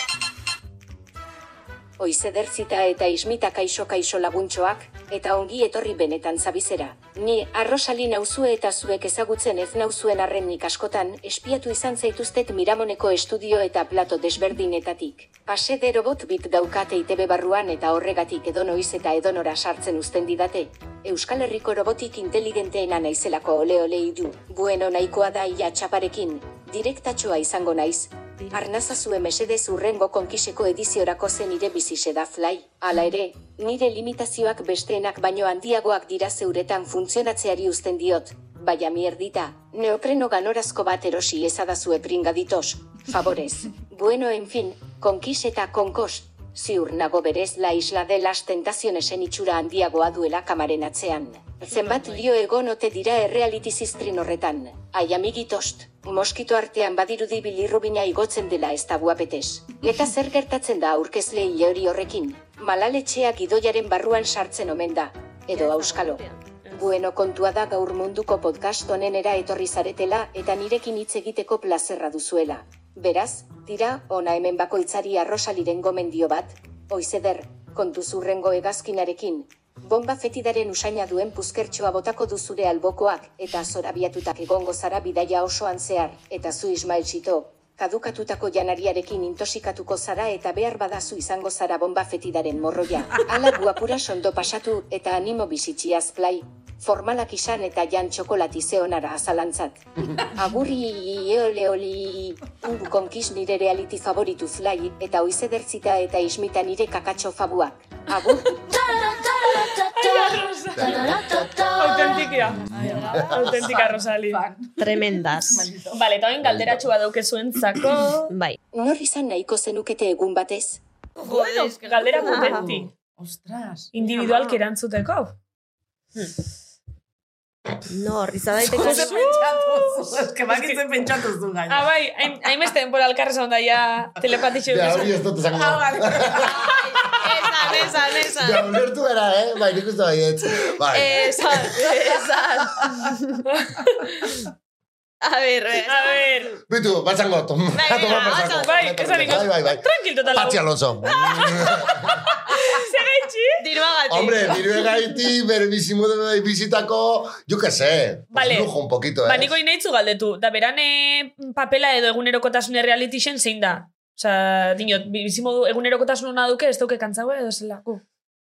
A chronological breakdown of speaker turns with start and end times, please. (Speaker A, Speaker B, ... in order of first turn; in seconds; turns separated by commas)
Speaker A: 2.0-109.0, Speaker B: 65.5-66.4, Speaker C: 109.7-114.4, Speaker D: 110.7-113.6, Speaker E: 112.7-116.1, Speaker B: 114.8-115.7, Speaker C: 115.9-118.3, Speaker D: 116.4-116.9, Speaker B: 118.3-118.6, Speaker A: 118.7-120.8, Speaker B: 121.2-122.7, Speaker C: 121.2-122.9, Speaker E: 122.2-123.9, Speaker C: 123.9-125.4, Speaker B: 124.0-124.6, Speaker B: 127.8-129.2, Speaker E: 128.7-131.9, Speaker C: 128.7-130.8, Speaker C: 131.7-135.2, Speaker D: 134.7-141.8, Speaker E: 135.5-136.8, Speaker B: 136.4-138.7, Speaker B: 140.9-143.4, Speaker C: 143.6-144.3, Speaker B: 145.2-146.4, Speaker C: 145.9-146.6, Speaker D: 146.7-152.4, Speaker B: 147.7-149.3, Speaker C: 148.3-153.6, Speaker B: 153.6-154.7, Speaker D: 154.1-159.6, Speaker C: 158.3-158.7, Speaker C: 159.2-168.0